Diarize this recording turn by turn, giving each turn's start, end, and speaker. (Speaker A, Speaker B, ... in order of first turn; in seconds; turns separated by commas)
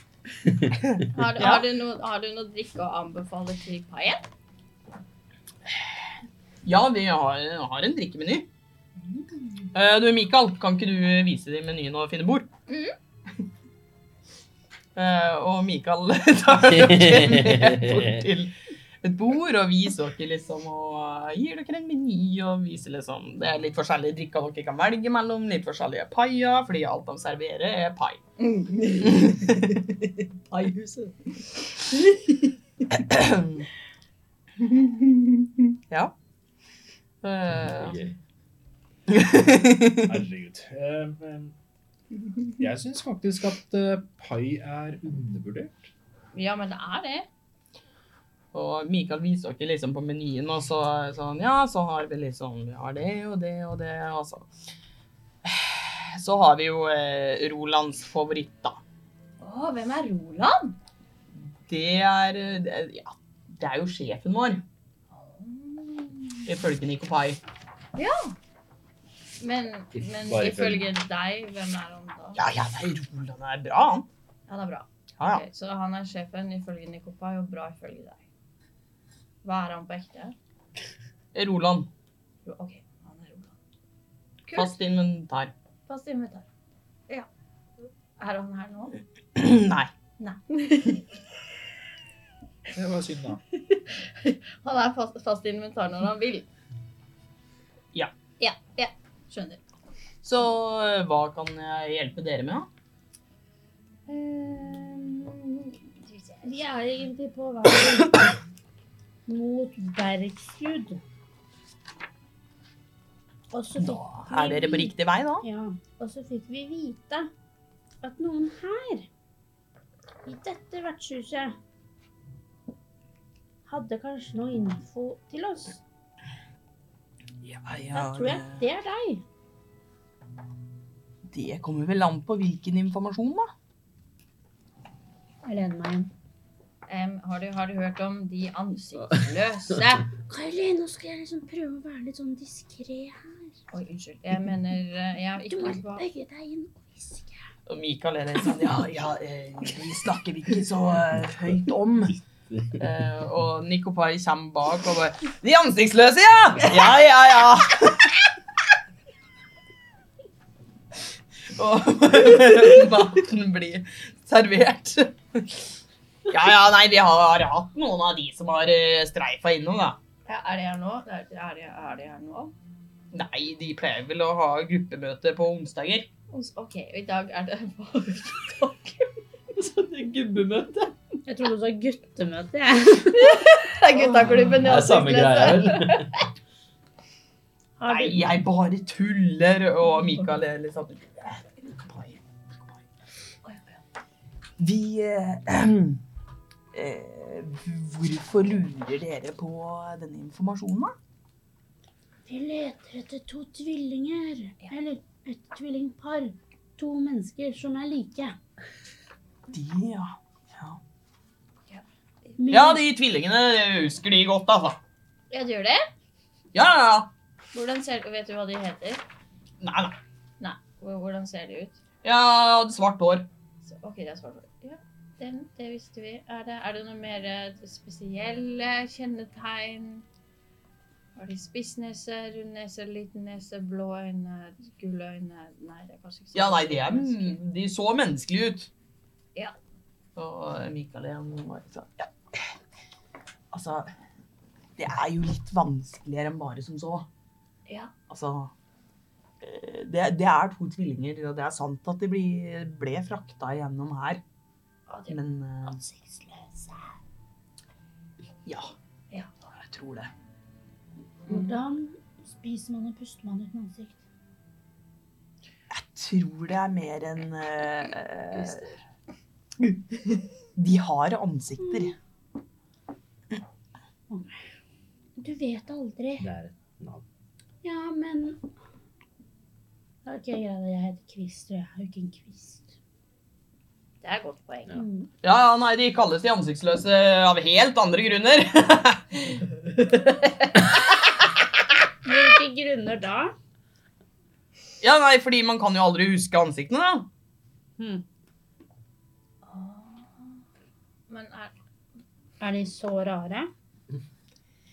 Speaker A: 0.9-1.6, Speaker B: 1.1-4.2, Speaker A: 6.6-8.5, Speaker A: 9.7-12.5, Speaker B: 12.7-12.9, Speaker A: 14.9-28.2, Speaker C: 16.6-18.2, Speaker B: 28.4-29.8, Speaker A: 29.1-29.6, Speaker B: 30.5-31.3, Speaker A: 33.0-33.7, Speaker A: 37.2-38.0, Speaker C: 37.5-38.1, Speaker A: 39.1-40.1, Speaker D: 40.0-41.5, Speaker D: 42.6-45.9, Speaker B: 46.3-47.3, Speaker A: 48.5-54.5, Speaker A: 55.4-58.8, Speaker B: 59.4-60.8, Speaker A: 61.7-64.6, Speaker B: 65.2-66.4, Speaker A: 66.4-67.4, Speaker B: 67.9-68.3, Speaker B: 69.4-72.4, Speaker C: 69.9-70.9, Speaker A: 72.3-74.1, Speaker B: 74.5-78.2, Speaker A: 75.2-75.4, Speaker B: 79.4-80.3, Speaker A: 81.3-81.9, Speaker B: 82.4-83.5, Speaker B: 84.5-84.8, Speaker A: 84.5-85.5, Speaker B: 85.9-86.5, Speaker B: 88.2-88.9, Speaker A: 89.3-89.9, Speaker B: 90.2-91.0, Speaker D: 92.7-93.4, Speaker B: 93.5-96.5, Speaker B: 98.4-99.6, Speaker A: 100.2-102.7, Speaker B: 104.1-106.6, Speaker E: 106.4-108.2, Speaker E: 109.3-111.0, Speaker E: 113.5-117.3, Speaker A: 113.8-115.5, Speaker E: 118.0-119.1, Speaker E: 120.2-121.5, Speaker E: 123.6-125.8, Speaker A: 127.4-128.6, Speaker E: 127.9-129.2, Speaker A: 131.3-133.5, Speaker E: 135.4-136.1, Speaker B: 136.9-140.1, Speaker E: 140.2-143.6, Speaker B: 143.7-146.1, Speaker E: 145.5-147.4, Speaker A: 147.7-152.2, Speaker A: 152.8-158.1, Speaker A: 161.5-165.5, Speaker A: 166.3-170.0, Speaker B: 170.2-172.5, Speaker A: 173.1-176.1, Speaker B: 176.3-179.1, Speaker A: 179.6-180.9, Speaker E: 181.2-183.5, Speaker B: 183.1-186.2, Speaker C: 184.2-186.1, Speaker E: 187.8-188.2, Speaker A: 187.8-192.8, Speaker B: 193.4-193.7, Speaker A: 194.6-196.0, Speaker A: 196.7-200.9, Speaker E: 202.3-208.4, Speaker A: 209.5-210.8, Speaker B: 211.7-212.4, Speaker E: 212.4-212.8, Speaker A: 212.5-214.8, Speaker B: 215.3-215.8, Speaker A: 216.5-217.1, Speaker B: 217.5-219.0, Speaker A: 219.6-220.0, Speaker B: 220.4-221.8, Speaker A: 222.0-223.3, Speaker B: 223.6-230.0, Speaker B: 231.2-237.4, Speaker A: 236.3-238.7, Speaker A: 240.2-242.5, Speaker A: 243.5-243.9, Speaker A: 244.8-247.1, Speaker B: 247.7-247.9, Speaker A: 248.1-248.5, Speaker A: 249.4-254.2, Speaker B: 254.9-256.8, Speaker A: 255.1-255.8, Speaker A: 258.4-258.7, Speaker A: 259.4-260.1, Speaker E: 261.3-264.0, Speaker A: 265.7-268.7, Speaker C: 268.3-268.6, Speaker A: 270.6-271.9, Speaker E: 274.1-274.4, Speaker E: 275.2-276.3, Speaker C: 276.2-277.0, Speaker E: 277.6-278.4, Speaker E: 280.0-282.7, Speaker B: 284.0-284.7, Speaker E: 284.7-285.1, Speaker A: 285.2-289.4, Speaker E: 292.0-293.3, Speaker A: 294.8-297.1, Speaker E: 297.8-298.0, Speaker B: 299.4-300.4, Speaker B: 301.1-301.5, Speaker E: 302.4-303.5